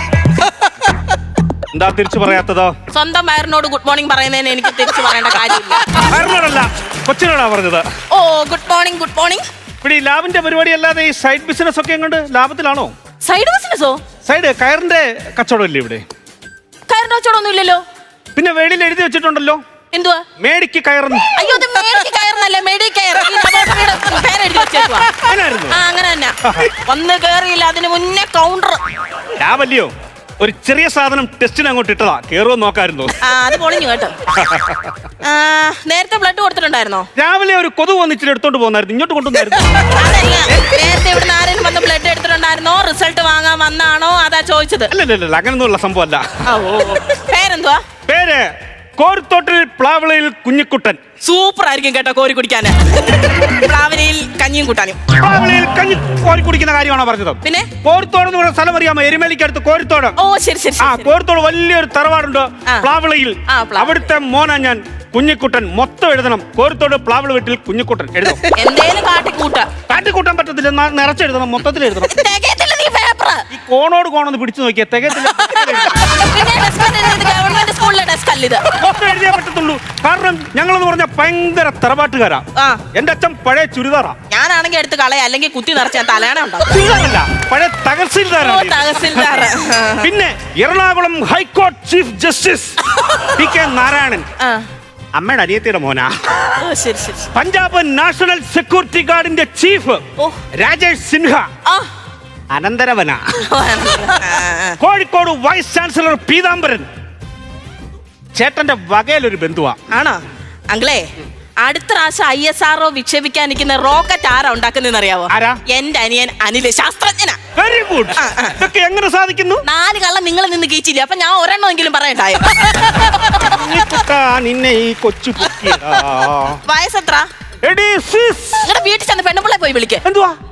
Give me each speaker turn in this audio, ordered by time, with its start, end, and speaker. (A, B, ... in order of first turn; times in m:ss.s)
0:01.7-0:02.7 A
0:02.9-0:06.0 B
0:05.9-0:07.8 A
0:08.1-0:09.4 B
0:09.8-0:12.9 A
0:13.2-0:14.0 B
0:14.2-0:16.0 A
0:16.9-0:17.8 B
0:18.4-0:19.6 A
0:19.9-0:20.2 B
0:20.4-0:21.3 A
0:21.3-0:25.1 B
0:25.1-0:25.8 A
0:25.7-0:28.8 B
0:29.4-0:33.1 A
0:33.2-0:34.1 B
0:34.3-0:35.0 A
0:35.2-0:37.1 B
0:37.2-0:39.9 A
0:39.8-0:44.9 B
0:44.9-0:46.2 A
0:46.4-0:47.8 B
0:48.1-0:48.4 A
0:49.0-0:51.0 A
0:51.2-0:55.0 B
0:55.1-1:00.2 A
0:57.4-0:57.7 B
1:00.2-1:01.1 B
1:00.8-1:08.4 A
1:03.5-1:04.1 B
1:08.5-1:09.7 B
1:09.9-1:12.1 A
1:12.0-1:13.4 B
1:13.5-1:16.0 A
1:15.2-1:18.6 B
1:18.8-1:24.2 A
1:22.6-1:22.8 B
1:24.3-1:26.8 B
1:26.7-1:29.5 A
1:28.4-1:30.1 B
1:30.0-1:32.8 A
1:32.9-1:33.4 B
1:33.3-1:34.2 A
1:34.4-1:34.6 B
1:35.1-1:36.1 A
1:36.5-1:37.3 B
1:37.3-1:41.4 A
1:42.5-1:43.2 A
1:43.4-1:44.8 B
1:44.8-1:46.9 A
1:48.3-1:49.8 A
1:49.9-1:51.1 B
1:51.6-1:57.4 B
1:55.3-1:55.6 A
1:57.6-1:59.6 A
1:58.2-1:58.6 B
1:59.6-2:03.9 B
2:03.3-2:06.6 A
2:06.6-2:07.3 B
2:07.6-2:08.7 A
2:08.6-2:10.0 B
2:10.0-2:10.4 A